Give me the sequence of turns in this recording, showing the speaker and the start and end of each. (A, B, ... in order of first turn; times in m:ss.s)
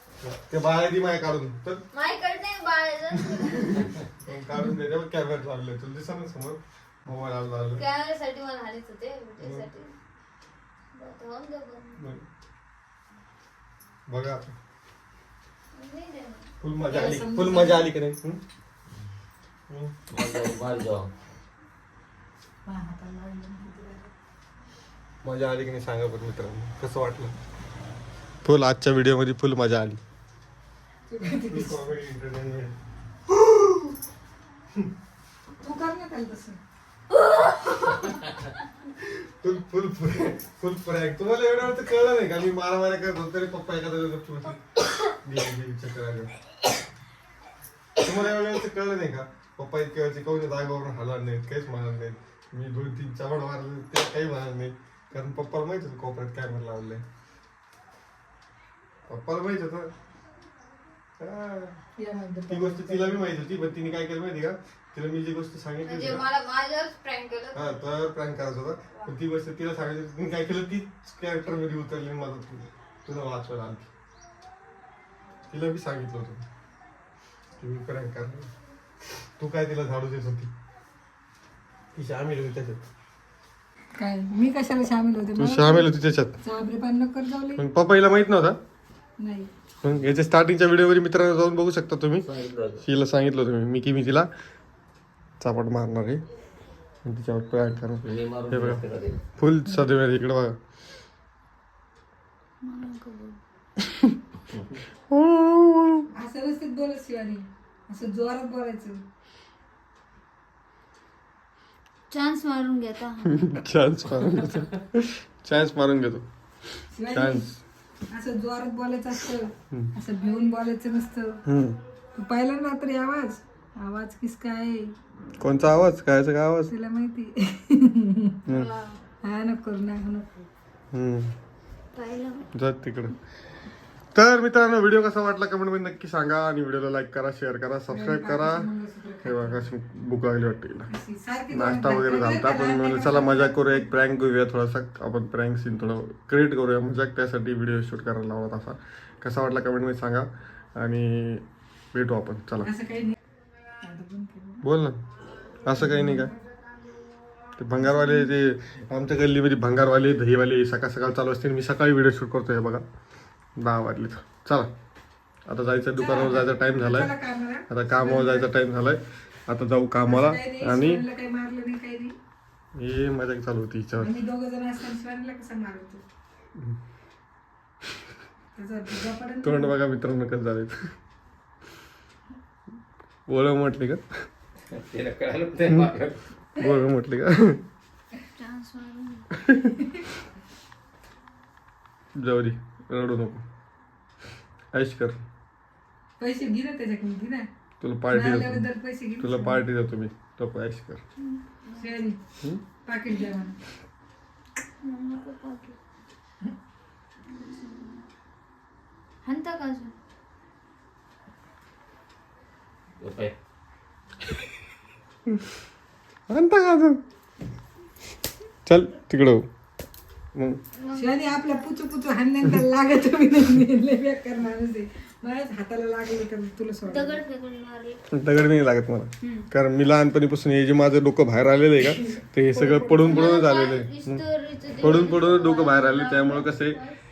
0:00.2-0:01.8 A
0:01.9-0:03.9 B
0:03.4-0:07.8 A
0:07.8-0:09.9 B
0:09.4-0:09.7 A
0:10.9-0:12.0 B
0:12.0-0:12.2 A
0:14.1-0:14.5 A
0:15.7-0:16.5 B
0:16.6-0:18.4 A
0:16.9-0:17.9 C
0:18.9-0:19.1 D
0:19.7-0:20.0 A
0:20.1-0:21.1 D
0:22.6-0:24.1 C
0:25.2-0:27.4 A
0:28.4-0:30.0 A
0:31.1-0:31.9 C
0:31.5-0:32.8 A
0:33.3-0:34.0 A
0:35.6-0:36.6 C
0:38.9-0:46.3 A
0:48.0-0:57.0 A
0:59.1-0:59.9 A
1:01.2-1:01.8 A
1:02.0-1:03.3 C
1:02.5-1:06.3 A
1:05.8-1:07.8 B
1:07.5-1:13.9 A
1:15.5-1:16.4 A
1:17.6-1:18.5 A
1:19.4-1:20.5 A
1:22.0-1:22.8 A
1:24.0-1:27.6 C
1:25.4-1:26.4 A
1:27.6-1:28.6 A
1:29.2-1:29.5 C
1:29.8-1:32.3 A
1:32.2-1:32.8 D
1:32.8-1:34.3 A
1:35.4-1:36.2 A
1:37.0-1:38.8 A
1:38.0-1:39.2 D
1:39.4-1:40.6 A
1:42.6-1:43.4 B
1:43.8-1:44.2 A
1:45.1-1:46.1 A
1:46.2-1:49.0 C
1:52.1-1:53.5 B
1:53.2-1:56.2 A
1:56.9-1:57.5 C
1:57.1-1:57.6 A
1:58.1-2:01.4 C
2:01.5-2:01.8 A
2:02.2-2:04.9 C
2:05.4-2:06.7 A
2:06.7-2:08.4 C
2:08.5-2:09.0 B
2:09.2-2:10.5 C
2:10.9-2:11.3 A
2:11.9-2:12.5 B
2:12.5-2:13.2 A
2:14.1-2:18.7 A
2:17.9-2:19.6 C
2:19.2-2:20.9 A
2:20.9-2:23.9 C
2:21.5-2:32.7 A
2:32.6-2:33.2 C
2:33.8-2:34.6 C
2:34.6-2:35.0 A
2:35.6-2:36.3 A
2:35.8-2:36.3 C
2:37.6-2:42.8 A
2:37.9-2:38.2 C
2:43.6-2:44.7 A
2:45.5-2:47.1 A
2:46.0-2:48.5 C
2:47.7-2:51.0 A
2:50.1-2:52.2 C
2:52.8-2:54.2 A
2:54.0-2:56.0 C
2:58.6-2:59.7 C
2:59.4-3:01.0 A
3:03.3-3:04.3 A
3:04.7-3:06.2 D
3:06.6-3:07.6 A
3:08.4-3:09.5 B
3:09.4-3:09.7 A
3:12.2-3:13.4 A
3:14.7-3:15.2 A
3:16.2-3:17.5 C
3:17.8-3:21.0 A
3:18.1-3:19.6 C
3:21.2-3:22.1 B
3:21.8-3:22.2 C
3:22.8-3:23.6 C
3:24.8-3:25.8 B
3:27.3-3:28.0 B
3:29.2-3:29.9 B
3:33.0-3:33.3 D
3:36.3-3:37.0 A
3:38.7-3:39.5 A
3:40.4-3:40.6 A
3:40.8-3:41.7 B
3:41.0-3:47.2 C
3:46.8-3:48.0 B
3:48.1-3:54.2 A
3:49.2-3:49.5 B
3:52.0-3:53.3 C
3:53.1-3:57.0 B
3:54.8-3:56.8 A